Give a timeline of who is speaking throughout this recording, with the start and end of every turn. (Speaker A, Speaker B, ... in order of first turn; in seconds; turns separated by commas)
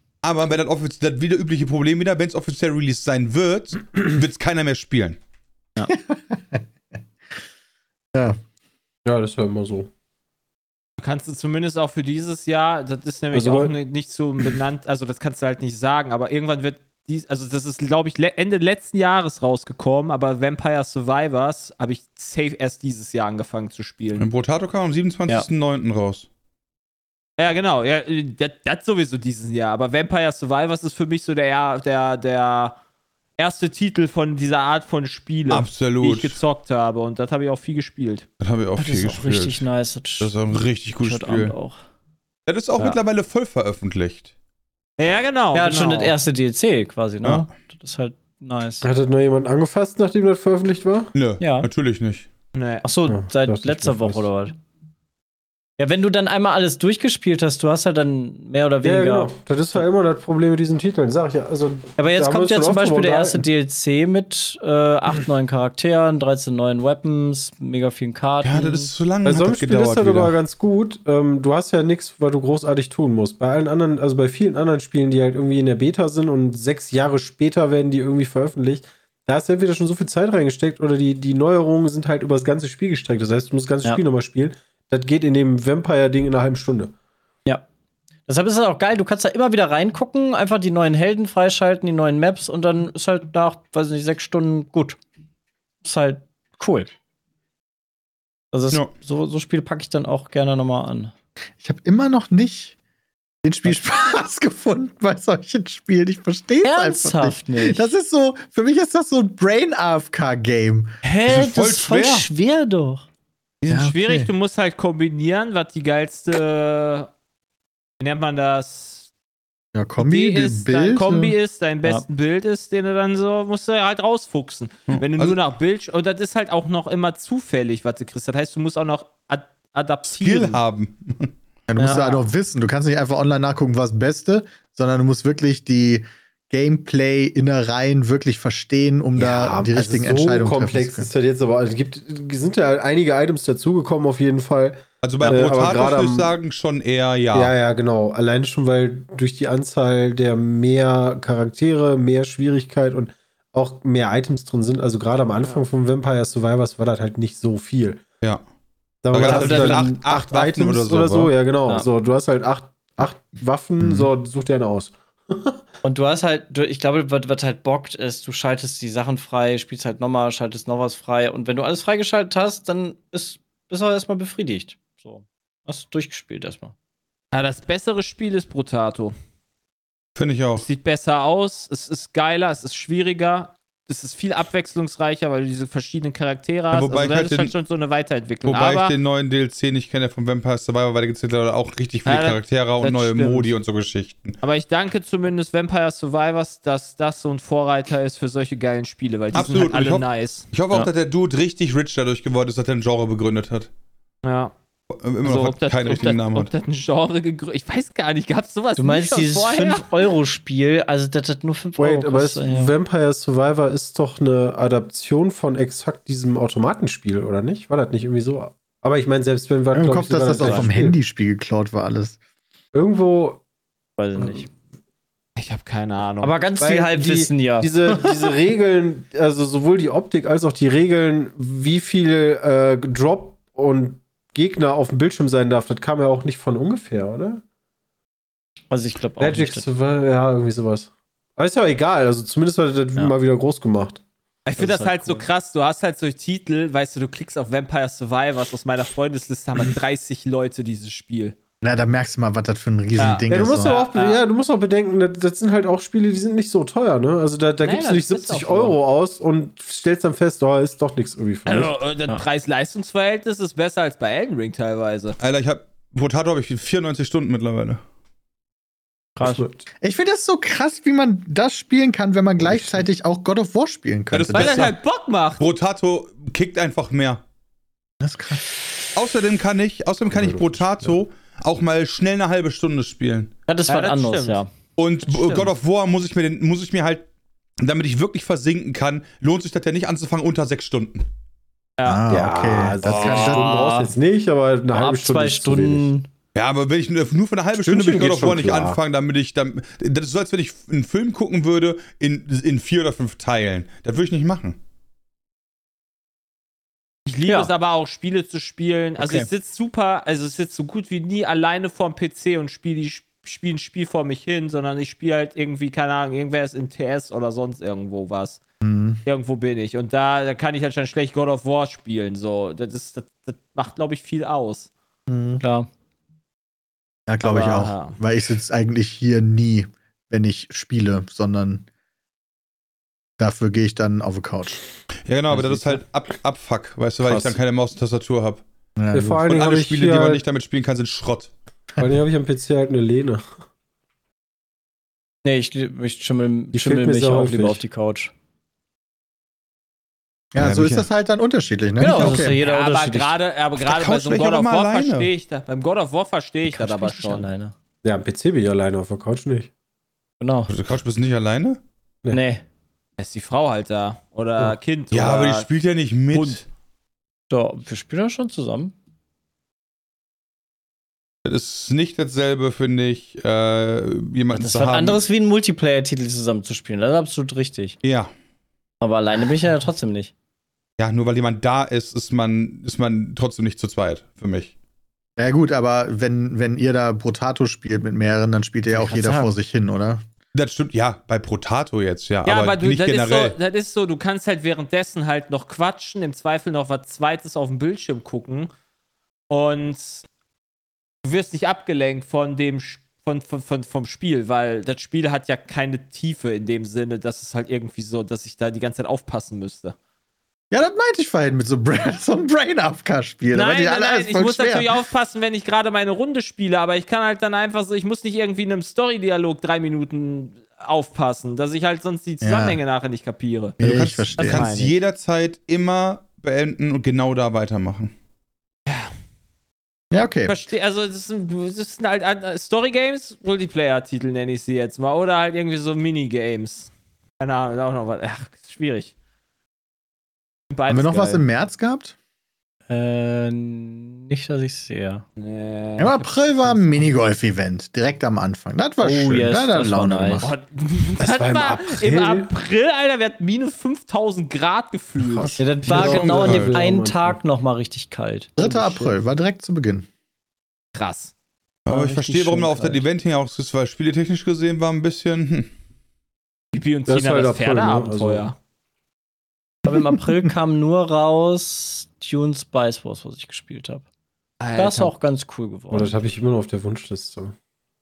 Speaker A: 0.2-5.2, Speaker B: 5.9-6.6, Speaker C: 9.0-9.9, Speaker D: 11.0-24.3, Speaker C: 13.3-13.7, Speaker A: 24.2-26.3, Speaker D: 27.4-32.8, Speaker D: 33.4-38.2, Speaker A: 35.5-36.4, Speaker A: 38.4-39.6, Speaker E: 38.8-40.4, Speaker A: 40.2-41.5, Speaker E: 41.0-41.8, Speaker A: 42.5-44.3, Speaker D: 45.0-46.1, Speaker E: 45.5-48.9, Speaker C: 48.8-51.1, Speaker A: 51.1-52.2, Speaker E: 51.4-51.7, Speaker D: 52.5-52.8, Speaker E: 52.8-54.5, Speaker C: 53.1-54.2, Speaker E: 55.8-59.3, Speaker C: 58.8-63.4, Speaker E: 62.0-68.9, Speaker A: 68.4-70.3, Speaker C: 69.2-86.9, Speaker E: 88.3-95.0, Speaker E: 95.8-96.9, Speaker E: 98.5-101.1, Speaker B: 101.6-102.7, Speaker B: 103.4-110.9, Speaker E: 106.6-107.9, Speaker E: 111.0-113.0, Speaker A: 111.2-112.3, Speaker D: 113.6-117.1, Speaker B: 113.7-114.3, Speaker D: 118.0-119.1, Speaker B: 119.7-121.3, Speaker D: 120.0-130.6, Speaker A: 124.9-125.4, Speaker A: 130.1-131.3, Speaker B: 131.7-141.1, Speaker E: 131.8-132.2, Speaker C: 139.2-146.3, Speaker A: 145.0-147.5, Speaker C: 147.3-158.0, Speaker C: 159.0-165.6, Speaker A: 159.1-161.3, Speaker E: 159.1-159.9, Speaker B: 163.8-164.1, Speaker E: 165.8-176.7, Speaker D: 177.3-179.1, Speaker A: 180.2-180.7, Speaker D: 180.6-188.9, Speaker A: 186.7-187.5, Speaker A: 188.4-194.4, Speaker D: 192.0-193.5, Speaker D: 194.4-200.5, Speaker A: 199.3-203.7, Speaker D: 204.2-204.5, Speaker A: 204.9-206.5, Speaker D: 205.2-210.1, Speaker E: 208.8-212.7, Speaker C: 211.8-221.0, Speaker B: 219.7-222.2, Speaker E: 220.4-220.7, Speaker C: 222.7-223.4, Speaker E: 224.0-224.5, Speaker C: 224.2-224.4, Speaker D: 225.3-226.3, Speaker E: 226.2-228.1, Speaker C: 226.6-237.4, Speaker E: 238.7-239.6, Speaker C: 239.2-244.0, Speaker D: 244.4-251.3, Speaker E: 244.6-245.3, Speaker B: 251.6-253.8, Speaker D: 253.0-254.2, Speaker C: 253.3-261.7, Speaker D: 257.6-258.8, Speaker D: 261.4-265.2, Speaker A: 265.2-267.8, Speaker E: 269.2-269.4, Speaker C: 269.2-269.6, Speaker B: 269.8-274.6, Speaker C: 272.4-272.8, Speaker A: 274.1-274.8, Speaker D: 274.3-275.4, Speaker A: 275.4-277.2, Speaker B: 278.0-278.4, Speaker A: 278.9-283.3, Speaker C: 280.1-281.0, Speaker E: 283.5-284.5, Speaker D: 283.7-284.4, Speaker A: 284.8-287.1, Speaker D: 285.1-285.5, Speaker A: 287.6-291.1, Speaker D: 291.8-292.0, Speaker B: 291.8-293.5, Speaker C: 292.1-295.9, Speaker E: 293.0-293.9, Speaker A: 293.1-293.4, Speaker E: 294.7-296.1, Speaker A: 296.3-304.6, Speaker C: 297.6-298.8, Speaker D: 307.1-318.4, Speaker E: 307.2-307.5, Speaker B: 318.6-319.0, Speaker D: 319.0-324.7, Speaker B: 325.1-325.4, Speaker E: 325.4-325.7, Speaker B: 327.1-331.6, Speaker D: 327.2-328.0, Speaker B: 333.2-334.6, Speaker A: 335.0-338.4, Speaker C: 337.0-337.4, Speaker B: 338.8-339.2, Speaker C: 338.9-340.2, Speaker A: 339.2-341.3, Speaker C: 341.8-343.2, Speaker E: 345.2-348.1, Speaker C: 346.5-347.6, Speaker B: 350.3-352.4, Speaker A: 350.4-350.9, Speaker E: 351.8-353.1, Speaker D: 352.1-357.3, Speaker A: 353.6-355.1, Speaker E: 356.4-357.5, Speaker C: 357.8-359.5, Speaker E: 360.2-360.5, Speaker A: 360.5-361.6, Speaker E: 362.1-362.4, Speaker D: 363.0-365.5, Speaker A: 364.9-366.4, Speaker D: 366.1-366.4, Speaker E: 367.3-368.7, Speaker A: 371.2-375.0, Speaker E: 374.3-377.8, Speaker A: 377.8-378.1, Speaker E: 378.8-380.1, Speaker A: 380.8-384.5, Speaker B: 385.2-390.0, Speaker E: 388.7-389.3, Speaker A: 390.3-393.4, Speaker D: 392.2-398.5, Speaker D: 399.3-400.0, Speaker D: 401.0-409.7, Speaker B: 410.5-414.7, Speaker D: 413.3-423.6, Speaker B: 422.2-422.6, Speaker B: 423.6-424.5, Speaker A: 423.6-427.9, Speaker D: 424.2-424.7, Speaker D: 428.7-428.9, Speaker B: 429.9-430.4, Speaker D: 430.2-438.9, Speaker D: 440.5-441.2, Speaker B: 440.7-441.9, Speaker E: 442.7-445.0, Speaker D: 445.2-446.7, Speaker B: 445.8-450.3, Speaker E: 448.8-450.3, Speaker D: 450.2-455.4, Speaker C: 451.0-452.3, Speaker C: 455.1-457.2, Speaker E: 455.4-458.9, Speaker A: 455.6-456.6, Speaker B: 458.4-459.9, Speaker D: 460.7-461.1, Speaker A: 461.6-465.5, Speaker E: 461.7-462.8, Speaker D: 466.5-468.4, Speaker C: 466.9-468.3, Speaker E: 469.6-473.8, Speaker D: 474.4-474.9, Speaker E: 474.5-476.0, Speaker C: 475.7-477.3